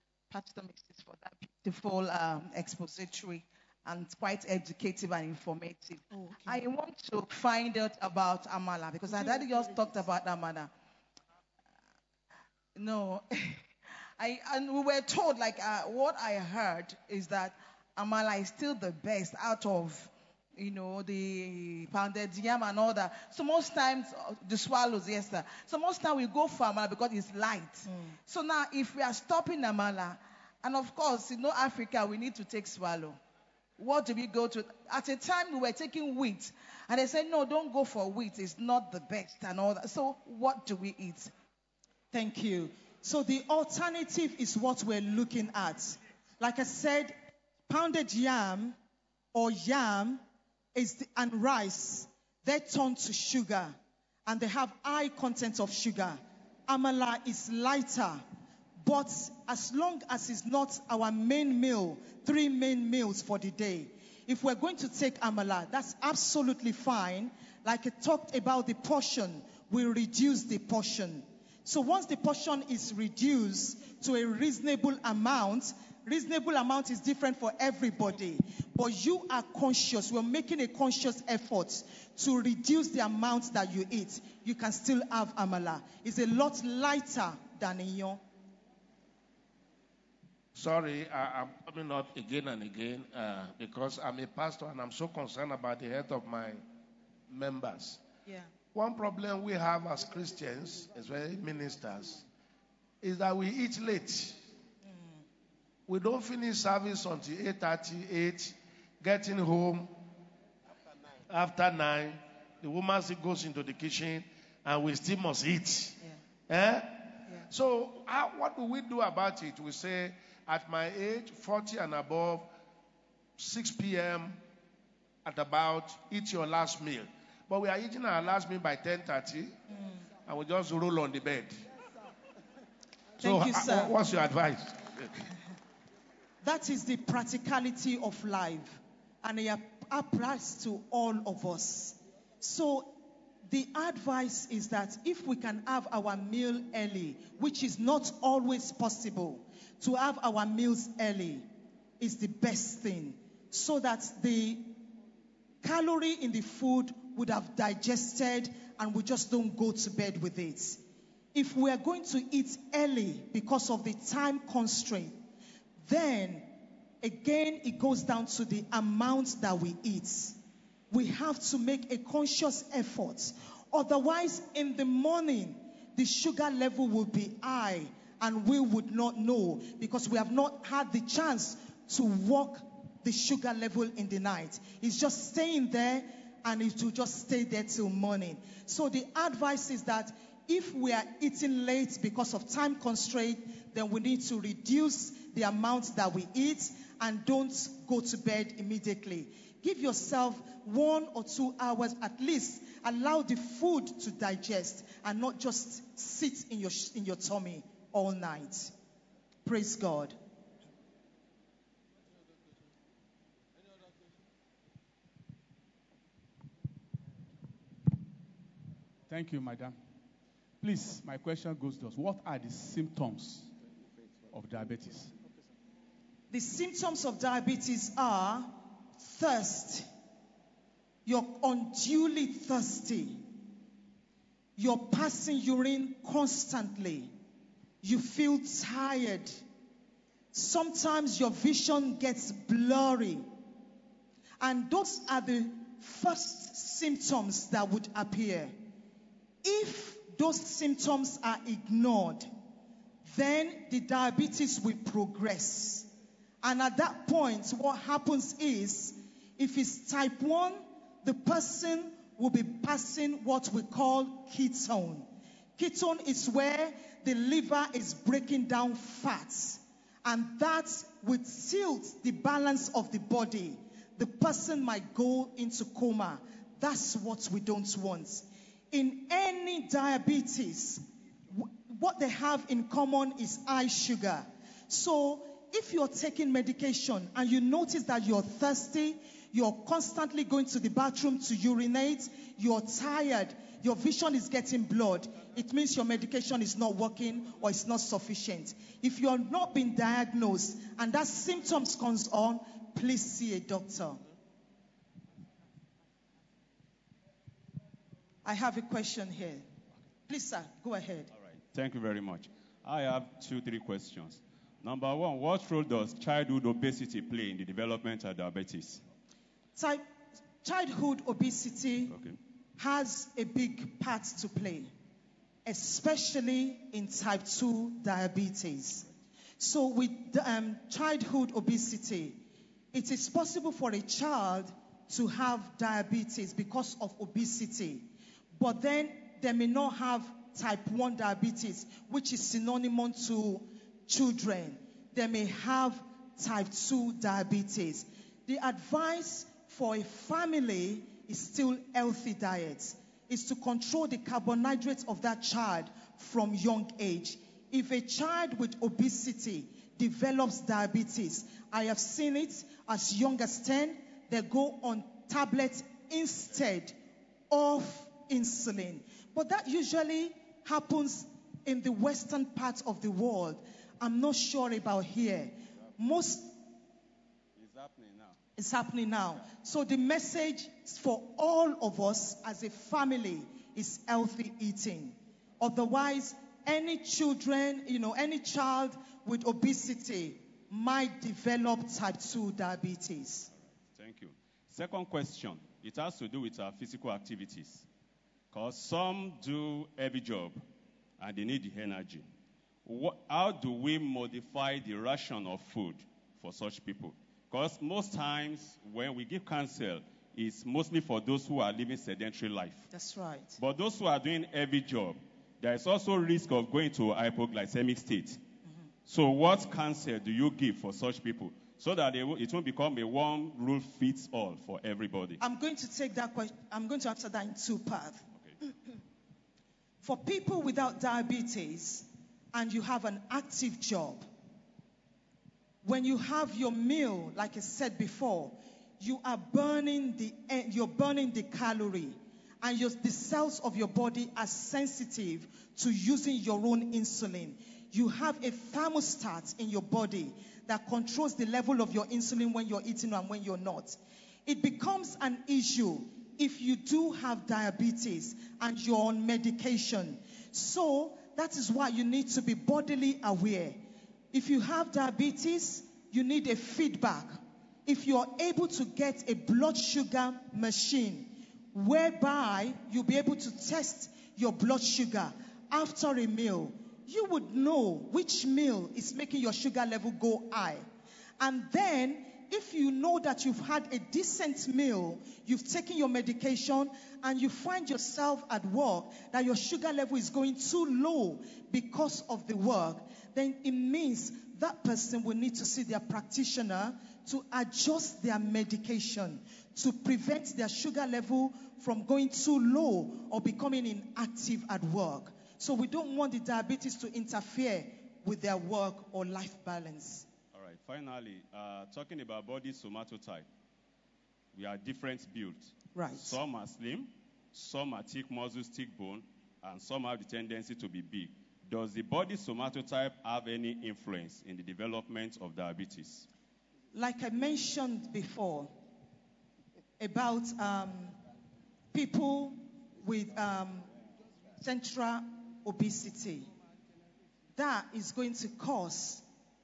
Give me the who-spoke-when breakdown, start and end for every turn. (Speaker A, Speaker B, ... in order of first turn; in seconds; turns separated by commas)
Speaker A: 0.3-10.7, Speaker B: 6.1-6.6, Speaker A: 12.7-13.7, Speaker A: 14.2-33.2, Speaker A: 33.8-41.3, Speaker B: 42.1-47.1, Speaker B: 47.7-48.8, Speaker B: 49.3-50.2, Speaker B: 50.7-53.7, Speaker B: 54.2-58.2, Speaker B: 58.8-88.2, Speaker C: 90.5-96.6, Speaker C: 97.3-98.0, Speaker C: 98.7-102.2, Speaker C: 103.0-104.4, Speaker C: 105.9-109.9, Speaker C: 111.3-116.0, Speaker C: 116.5-122.5, Speaker C: 123.4-124.4, Speaker C: 125.2-129.6, Speaker C: 130.2-131.6, Speaker B: 133.2-133.9, Speaker C: 133.2-135.2, Speaker B: 136.4-142.9, Speaker B: 143.5-151.4, Speaker B: 152.0-154.7, Speaker B: 155.6-160.8, Speaker B: 161.3-165.2, Speaker B: 165.8-166.5, Speaker B: 167.0-170.4, Speaker B: 170.9-208.7, Speaker B: 209.4-210.2, Speaker D: 219.1-219.8, Speaker D: 220.6-223.5, Speaker D: 224.3-225.1, Speaker B: 226.3-229.9, Speaker B: 231.1-233.2, Speaker B: 234.6-237.1, Speaker B: 237.8-239.4, Speaker B: 240.3-243.2, Speaker B: 244.4-248.5, Speaker B: 249.4-252.3, Speaker B: 253.1-255.9, Speaker B: 256.4-265.1, Speaker B: 265.6-304.0, Speaker B: 308.2-309.4, Speaker B: 310.1-311.1, Speaker E: 311.5-318.8, Speaker B: 319.6-319.8, Speaker B: 320.4-321.9, Speaker E: 321.9-322.2, Speaker B: 322.6-324.7, Speaker B: 325.4-328.9, Speaker B: 329.4-332.2, Speaker B: 332.7-366.8, Speaker B: 367.3-376.3, Speaker E: 377.4-378.2, Speaker B: 378.4-393.3, Speaker E: 393.3-397.6, Speaker E: 398.3-400.4, Speaker E: 401.0-402.1, Speaker E: 402.6-412.7, Speaker B: 412.7-413.4, Speaker E: 413.4-418.2, Speaker E: 418.9-425.2, Speaker B: 425.2-428.0, Speaker B: 429.8-434.0, Speaker B: 435.6-463.6, Speaker B: 464.1-480.6, Speaker B: 481.2-510.1, Speaker E: 510.3-513.3, Speaker E: 514.3-526.1, Speaker B: 515.7-516.2, Speaker B: 526.7-528.5, Speaker B: 529.8-530.9, Speaker B: 531.7-533.6, Speaker B: 534.4-536.3, Speaker B: 537.4-539.0